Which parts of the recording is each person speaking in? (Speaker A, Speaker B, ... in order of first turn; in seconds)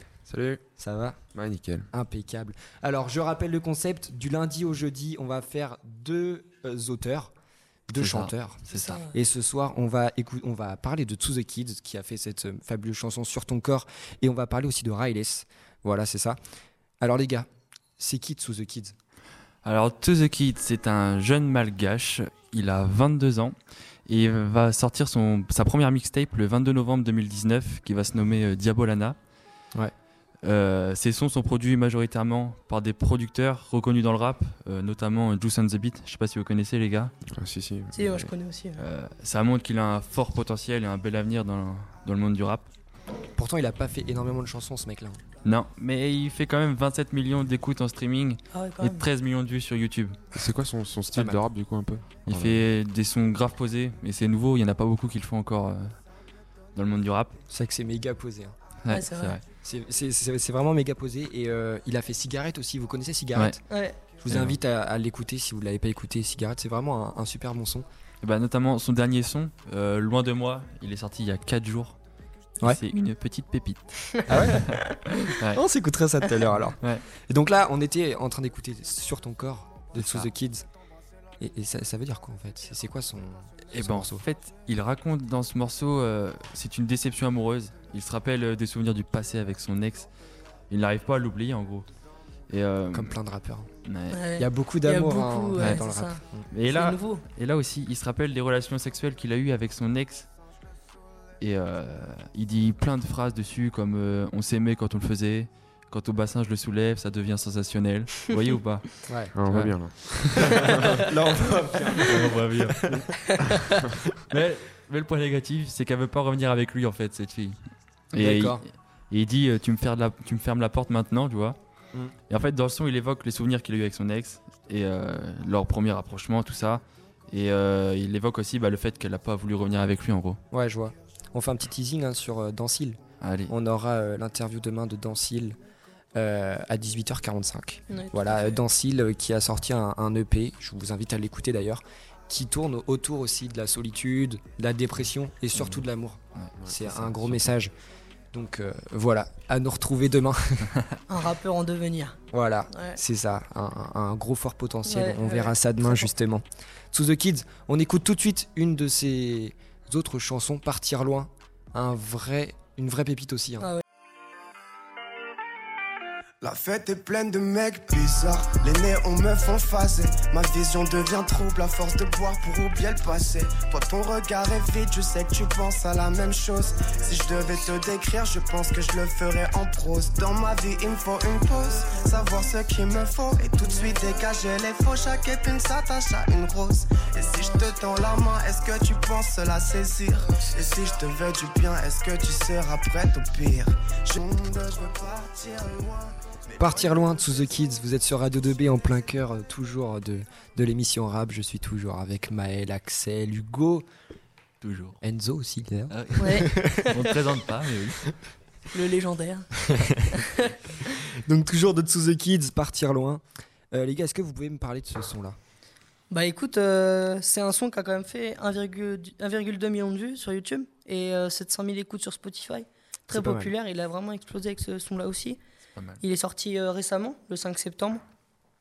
Speaker A: 0.3-0.6, 1.3-1.9, 37.3-38.3, 50.3-52.6, 109.4-110.7
Speaker B: 0.8-1.2, 1.9-7.3, 7.9-16.4, 17.0-17.5, 18.0-18.9, 43.4-45.2, 51.1-51.4, 57.5-58.5, 59.6-67.9, 74.3-74.8, 75.5-80.7, 81.4-84.2, 92.9-93.7, 94.4-96.5, 109.1-109.3, 110.6-113.0, 118.2-118.6, 130.5-135.6, 136.2-147.7, 148.3-150.7, 152.3-163.7, 196.6-203.8, 205.0-206.8, 211.2-215.4, 223.1-223.5
Speaker C: 8.0-9.0, 19.6-23.6, 24.1-29.2, 30.4-37.1, 38.8-42.7, 45.4-50.2, 52.2-55.9, 56.8-57.4, 58.8-59.4, 64.3-64.6, 68.2-72.0, 72.6-75.6, 80.0-80.3, 83.7-90.1, 90.7-91.9, 92.5-93.2, 93.8-94.2, 95.6-95.8, 96.5-100.3, 101.4-108.9, 109.4-110.7, 112.1-113.0, 114.3-117.6, 118.1-121.6, 122.3-130.4, 133.2-133.5, 145.5-145.8, 146.3-147.4, 204.6-205.0, 205.9-208.1, 225.8-226.0
Speaker D: 8.7-9.1, 37.9-38.8, 48.5-49.1, 58.9-59.4, 63.7-64.0, 94.1-97.2, 137.9-138.5, 151.1-152.2, 152.7-153.0, 154.9-156.1, 206.2-206.8, 208.7-210.5, 216.1-225.4, 226.0-228.0
Speaker E: 166.4-197.4